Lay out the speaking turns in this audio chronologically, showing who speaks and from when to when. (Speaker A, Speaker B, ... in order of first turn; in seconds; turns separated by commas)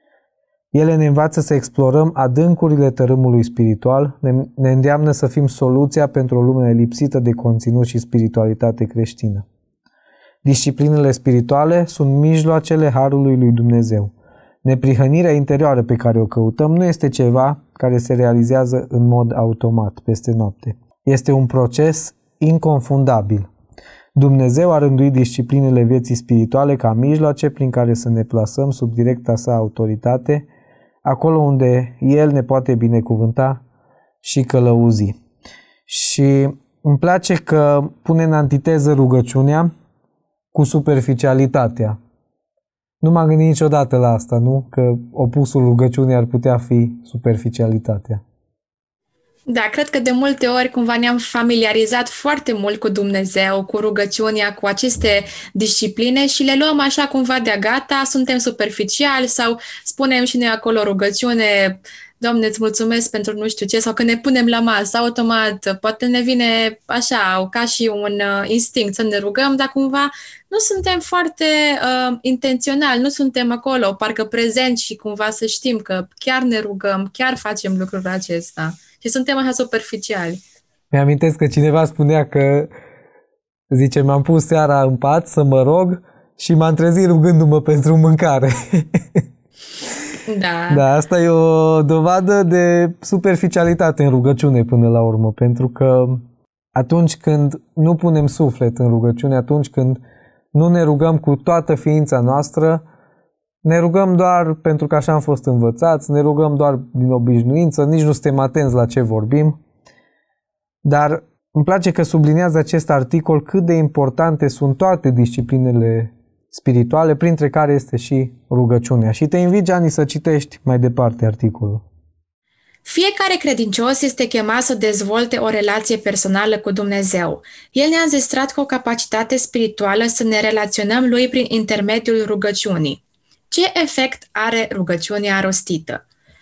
Speaker A: 0.7-9.4, Speaker A: 10.4-14.1, Speaker A: 14.6-23.5, Speaker A: 24.1-30.5, Speaker A: 31.0-33.6, Speaker A: 34.2-35.1, Speaker A: 35.9-39.7, Speaker A: 40.5-42.0, Speaker A: 43.0-48.2, Speaker B: 49.5-80.4, Speaker A: 80.9-82.7, Speaker A: 83.7-89.2, Speaker B: 90.2-90.8, Speaker A: 90.7-96.2, Speaker A: 96.7-100.0, Speaker A: 100.5-102.8, Speaker A: 103.6-109.6, Speaker A: 110.8-121.8, Speaker B: 122.8-136.0